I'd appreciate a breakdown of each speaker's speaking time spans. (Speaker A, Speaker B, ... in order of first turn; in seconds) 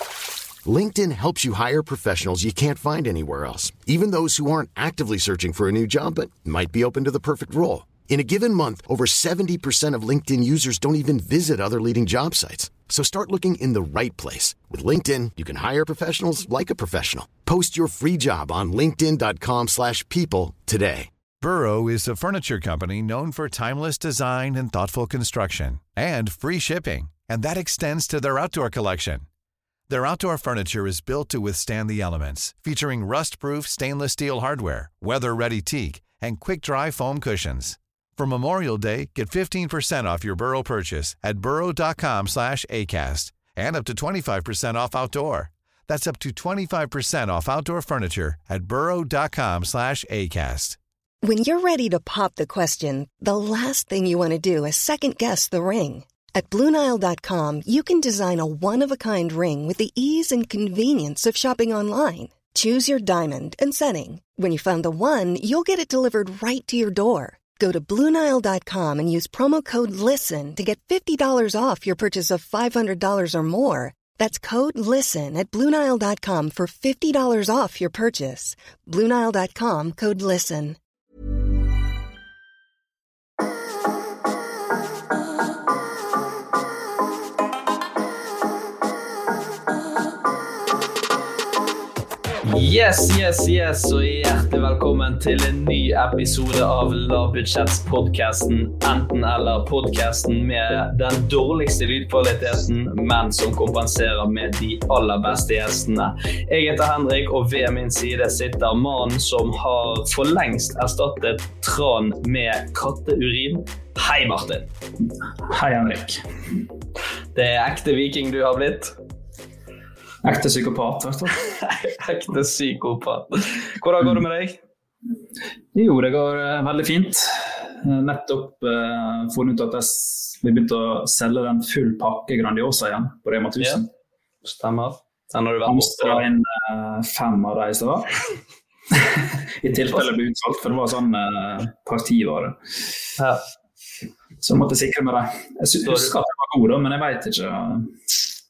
Speaker A: 0.6-21.1
Speaker B: 21.4-29.2, 29.9-50.8
Speaker C: 51.2-80.8
Speaker D: 92.5-114.7, 117.3-118.9, 121.6-124.6, 134.4-136.2, 139.8-140.1, 145.8-146.1
Speaker E: 115.5-116.2, 120.2-121.4, 125.7-133.9, 135.7-138.2, 138.9-142.6, 144.4-147.9